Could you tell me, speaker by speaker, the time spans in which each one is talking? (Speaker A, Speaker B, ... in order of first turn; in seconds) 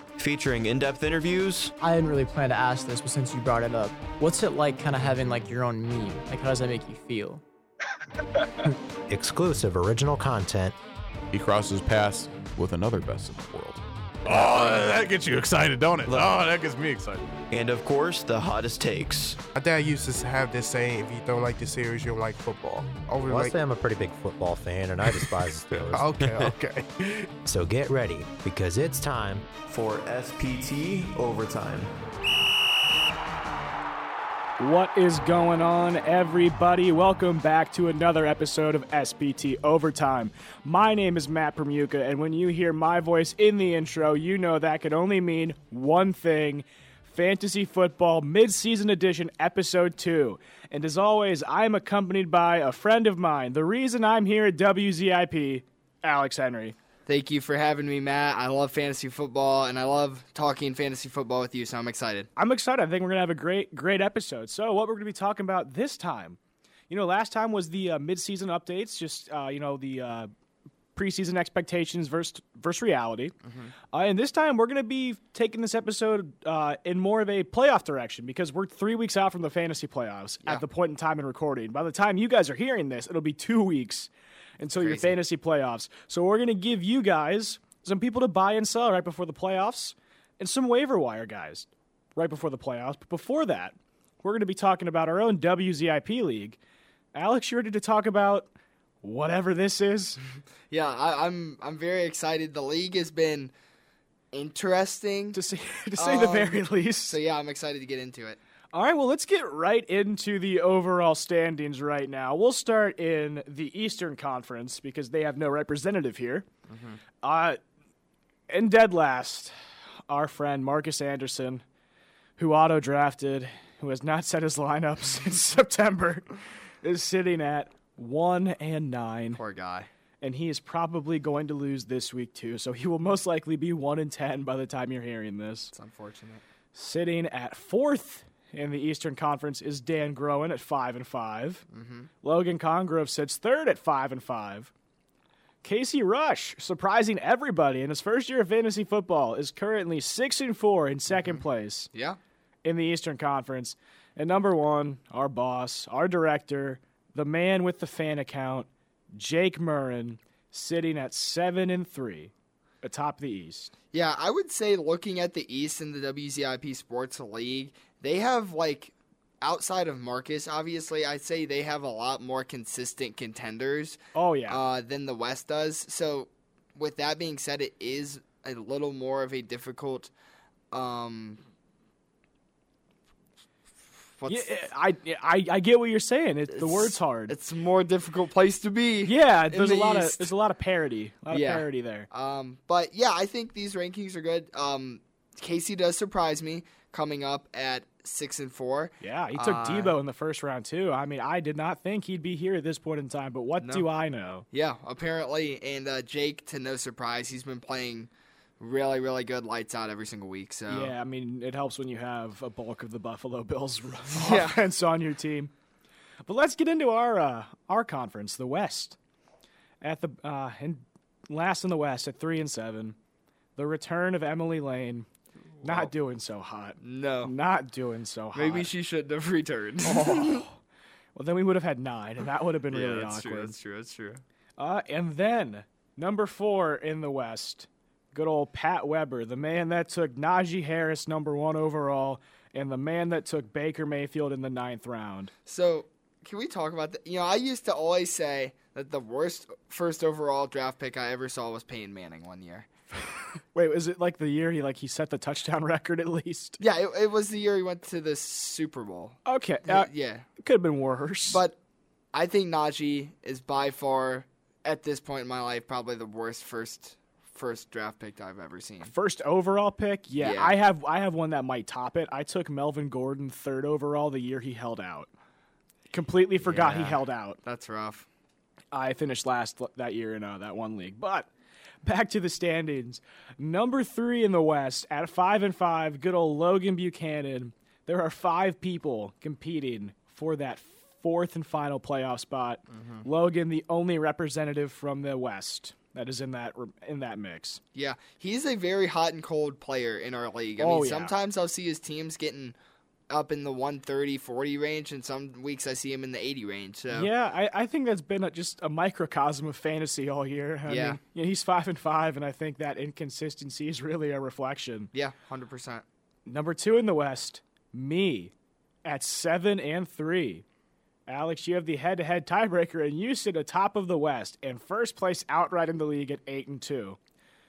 Speaker A: 0.2-1.7, 17.5-19.4, 29.7-31.9
Speaker B: 1.8-7.4
Speaker C: 9.1-10.8, 23.3-26.2, 27.4-29.5
Speaker D: 11.3-17.3
Speaker E: 19.6-23.6, 25.1-27.3
Speaker F: 34.6-56.8, 62.4-66.4, 66.9-70.3, 71.0-73.3, 73.9-96.6, 97.1-98.5, 99.0-100.2, 105.3-107.2, 108.7-116.5, 117.2-117.6, 118.5-119.5, 120.1-121.6, 122.4-126.3, 126.8-129.4, 130.2-135.7, 136.7-141.6, 142.2-144.7, 145.6-151.9, 152.6-163.7, 174.2-174.6, 184.3-187.3, 189.1-192.1, 199.0-204.5, 210.7-215.5, 216.2-219.0, 219.8-223.0, 223.6-225.1, 225.6-228.7, 229.8-230.6, 231.2-233.6, 234.6-245.3, 253.5-256.6, 259.3-261.4, 268.9-275.1, 275.9-277.4, 278.7-281.3, 281.8-297.6, 300.6-301.1, 306.9-314.9, 316.3-318.3, 318.8-320.4, 321.1-327.0
Speaker G: 57.1-62.3, 84.8-85.2, 100.7-103.5, 104.3-105.4, 106.0-108.4, 116.7-117.0, 129.4-129.9, 135.7-136.4, 141.7-142.1, 151.1-151.4, 151.9-152.2, 163.9-174.0, 174.5-180.1, 180.7-181.4, 184.2-184.6, 186.5-190.3, 191.3-199.9, 203.6-203.9, 204.5-210.9, 214.1-214.7, 225.6-225.9, 226.8-227.3, 228.3-230.4, 232.7-234.2, 245.5-252.7, 256.6-260.3, 261.3-261.6, 262.1-268.9, 270.2-270.6, 276.4-278.1, 297.8-302.6, 303.1-307.1, 310.7-311.0, 314.9-315.8